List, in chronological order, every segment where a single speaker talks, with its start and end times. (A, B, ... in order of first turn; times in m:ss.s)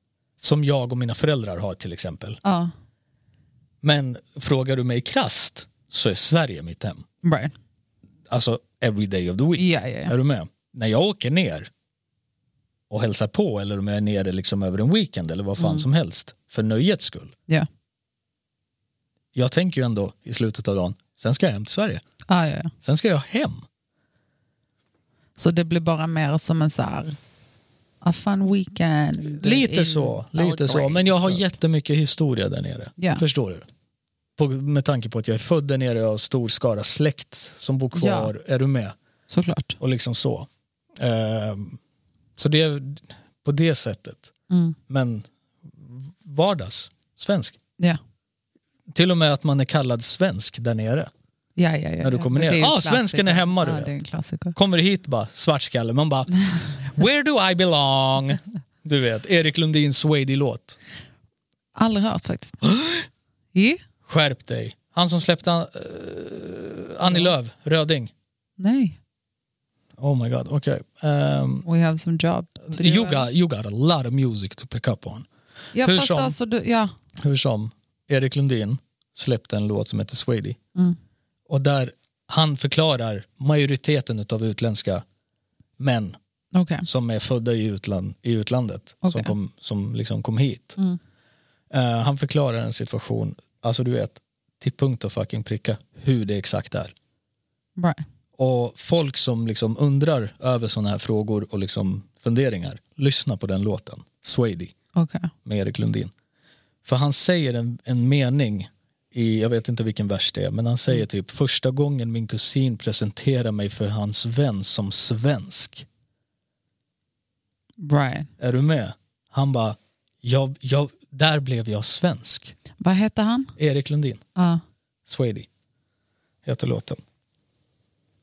0:00.4-0:02.4 A
0:02.4-0:02.7 B
0:03.8-0:07.0 A
0:07.2-0:07.5 B
0:08.3-0:11.7 A
0:09.6-0:10.1 B
0:12.9-0:17.3 A
0:15.6-0:15.8 B
0:19.3-0:22.0 A
0:22.3-0:22.7 B
0:22.8-0:23.6 A
0:25.4-0:27.2 B
0:28.0-0:31.4 B
0:29.2-0:33.6 A
0:34.4-0:39.0 A
0:37.9-0:38.3 B
0:39.3-0:39.8 B
0:39.8-0:41.8 A
0:42.4-0:44.3 A
0:44.5-0:44.8 B
0:44.9-0:47.6 A
0:48.9-0:51.1 A
0:51.6-0:54.6 B
0:52.0-0:53.9 A
0:54.5-1:00.8 A
1:01.8-1:02.6 B
1:02.6-1:03.1 A
1:03.5-1:03.8 B
1:04.0-1:08.1 A
1:07.0-1:07.3 B
1:08.6-1:09.0 B
1:10.0-1:11.6 A
1:11.6-1:13.2 B
1:12.7-1:15.3 A
1:15.7-1:16.9 B
1:15.8-1:16.3 A
1:17.2-1:20.6 A
1:21.5-1:25.0 A
1:25.8-1:26.2 A
1:26.5-1:26.8 B
1:26.8-1:30.8 A
1:29.0-1:29.3 B
1:31.7-1:36.9 A
1:37.8-1:38.0 B
1:38.4-1:44.7 A
1:44.9-1:45.3 B
1:45.4-1:46.1 A
1:46.8-1:55.8 A
1:57.8-1:58.3 B
1:58.4-2:02.6 A
2:02.8-2:03.5 B
2:03.6-2:04.2 A
2:04.4-2:04.6 B
2:05.0-2:05.5 A
2:06.4-2:07.0 A